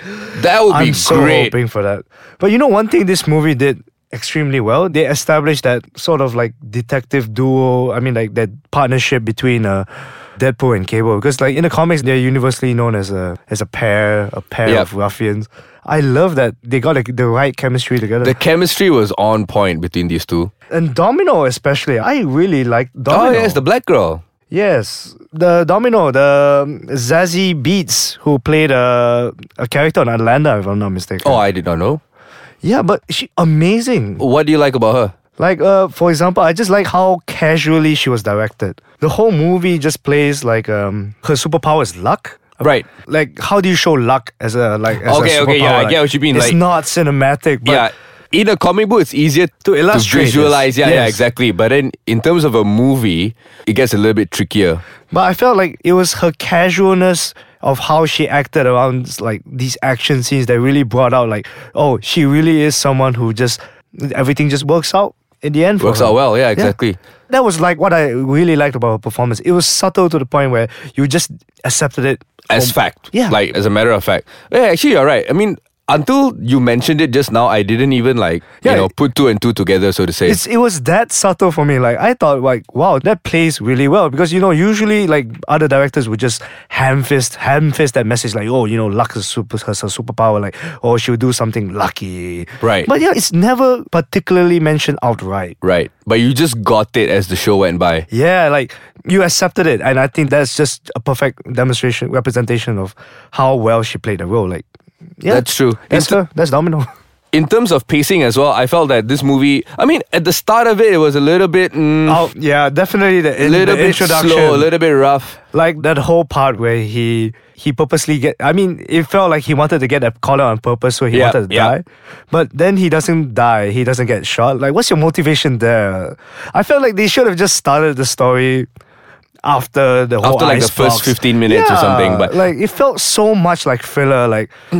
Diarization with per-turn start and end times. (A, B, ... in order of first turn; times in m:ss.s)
0:00.3-0:01.5 A
0:00.7-0:18.4 B
0:18.2-0:20.5 A
0:20.7-0:23.6 B
0:23.1-0:24.2 A
0:24.5-0:31.4 B
0:31.2-0:32.0 A
0:32.6-0:34.2 B
0:34.2-0:35.1 A
0:35.4-0:47.9 B
0:42.6-0:42.9 A
0:45.0-0:46.6 A
0:47.6-0:54.8 A
0:49.6-0:51.2 B
0:55.1-1:06.7 B
1:05.8-1:07.0 A
1:07.3-1:13.4 B
1:12.5-1:20.4 A
1:18.6-1:18.9 B
1:20.2-1:35.6 B
1:32.6-1:32.9 A
1:35.6-1:38.1 A
1:38.1-1:44.6 B
1:45.2-1:46.9 B
1:45.3-1:46.2 A
1:47.3-1:52.3 A
1:52.0-1:54.7 B
1:53.4-1:55.4 A
1:55.5-2:08.7 B
2:01.1-2:01.7 A
2:09.4-2:14.5 B
2:10.2-2:12.4 A